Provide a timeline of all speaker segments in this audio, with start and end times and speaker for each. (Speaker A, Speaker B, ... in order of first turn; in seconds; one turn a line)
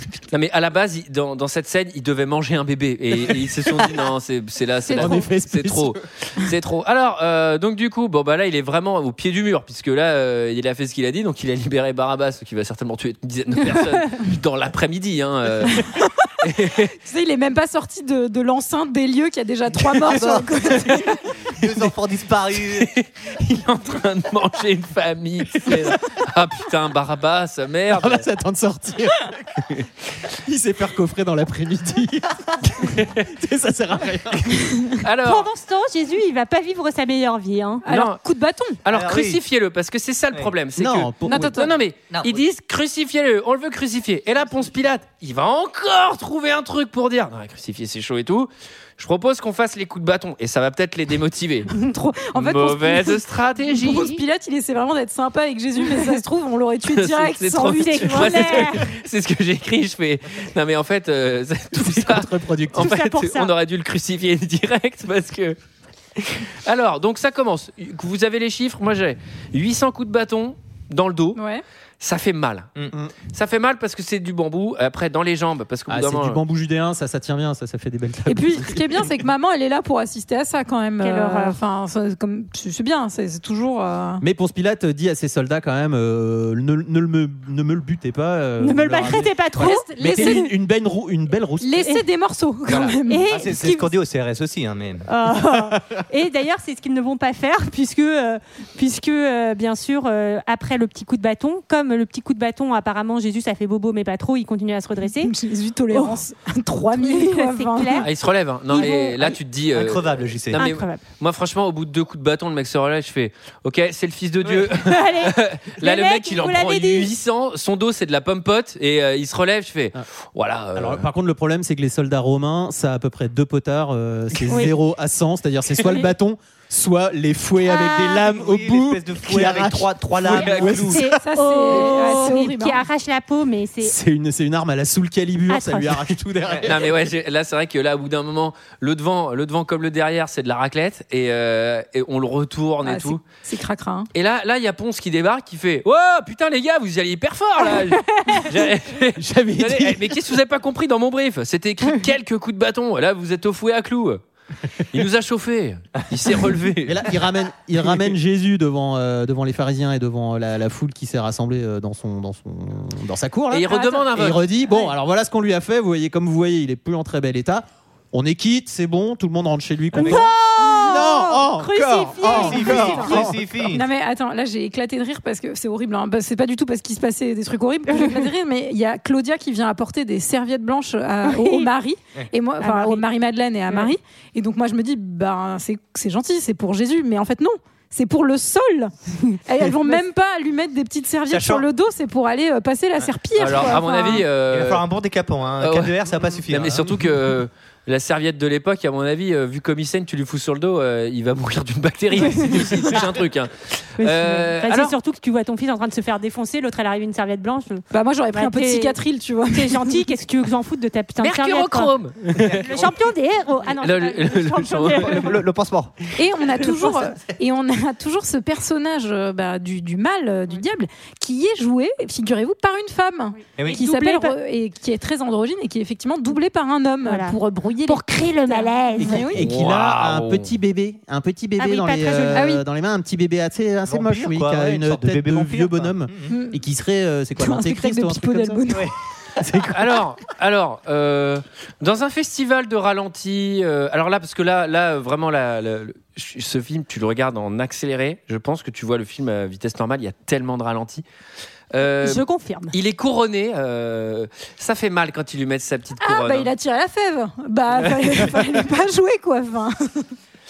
Speaker A: 0.3-16.9
Speaker B: 4.9-5.2
Speaker C: 4.9-6.0
Speaker B: 15.7-16.0
Speaker B: 17.0-21.2
Speaker D: 19.9-22.9
Speaker A: 22.7-28.2
Speaker C: 27.9-34.9
Speaker A: 32.9-33.3
Speaker A: 35.0-35.5
Speaker E: 35.2-37.8
Speaker B: 37.8-38.8
Speaker A: 37.9-38.2
Speaker A: 38.8-51.7
Speaker D: 38.9-39.4
Speaker C: 40.8-41.7
Speaker B: 41.3-41.7
Speaker D: 42.1-42.4
Speaker B: 51.7-58.7
Speaker A: 52.3-54.1
Speaker E: 53.8-54.2
Speaker A: 56.9-65.6
Speaker E: 57.8-58.9
Speaker C: 61.7-62.9
Speaker E: 62.8-63.5
Speaker A: 66.2-71.4
Speaker B: 71.3-71.6
Speaker A: 72.0-72.7
Speaker A: 73.3-76.4
Speaker C: 75.9-79.0
Speaker B: 78.2-84.2
Speaker E: 81.0-81.6
Speaker C: 84.2-91.7
Speaker E: 88.6-90.5
Speaker B: 89.5-90.5
Speaker B: 91.6-93.3
Speaker D: 92.7-95.1
Speaker E: 93.1-93.9
Speaker E: 95.0-105.3
Speaker C: 95.7-96.0
Speaker B: 105.0-108.1
Speaker E: 105.9-106.2
Speaker E: 107.0-108.1
Speaker A: 108.0-121.1
Speaker E: 108.7-109.3
Speaker D: 109.7-110.7
Speaker E: 110.5-111.0
Speaker E: 114.7-117.1
Speaker C: 120.7-131.2
Speaker E: 124.5-124.8
Speaker E: 125.8-126.1
Speaker E: 127.6-128.2
Speaker D: 128.1-131.0
Speaker A: 130.3-130.9
Speaker E: 130.9-133.9
Speaker B: 131.0-132.8
Speaker C: 133.8-136.9
Speaker E: 135.5-136.1
Speaker A: 136.6-143.2
Speaker B: 142.8-144.1
Speaker A: 144.1-154.2
Speaker E: 147.9-148.4
Speaker C: 149.2-150.2
Speaker A: 154.9-157.1
Speaker C: 156.9-173.3
Speaker A: 163.5-164.4
Speaker D: 169.9-170.3
Speaker E: 169.9-173.1
Speaker D: 172.2-173.8
Speaker B: 172.5-188.9
Speaker E: 177.9-178.2
Speaker E: 181.2-181.7
Speaker E: 182.6-183.0
Speaker B: 189.4-194.2
Speaker D: 191.3-191.7
Speaker A: 193.3-194.8
Speaker D: 194.5-196.9
Speaker A: 195.6-196.0
Speaker A: 196.5-204.9
Speaker E: 204.0-209.0
Speaker B: 207.9-210.1
Speaker E: 209.5-211.9
Speaker A: 211.2-212.6
Speaker D: 212.4-213.0
Speaker E: 212.6-215.4
Speaker A: 213.8-215.3
Speaker D: 214.8-215.9
Speaker B: 216.2-229.4
Speaker D: 223.6-223.8
Speaker E: 223.7-224.3
Speaker E: 227.1-229.3
Speaker C: 229.0-238.8
Speaker A: 229.3-230.5
Speaker E: 231.6-232.5
Speaker B: 232.3-232.6
Speaker D: 233.9-236.3
Speaker B: 236.3-236.6
Speaker B: 237.4-238.9
Speaker C: 239.4-239.9
Speaker A: 239.7-251.0
Speaker A: 251.7-256.5
Speaker E: 252.0-252.7
Speaker B: 256.0-260.1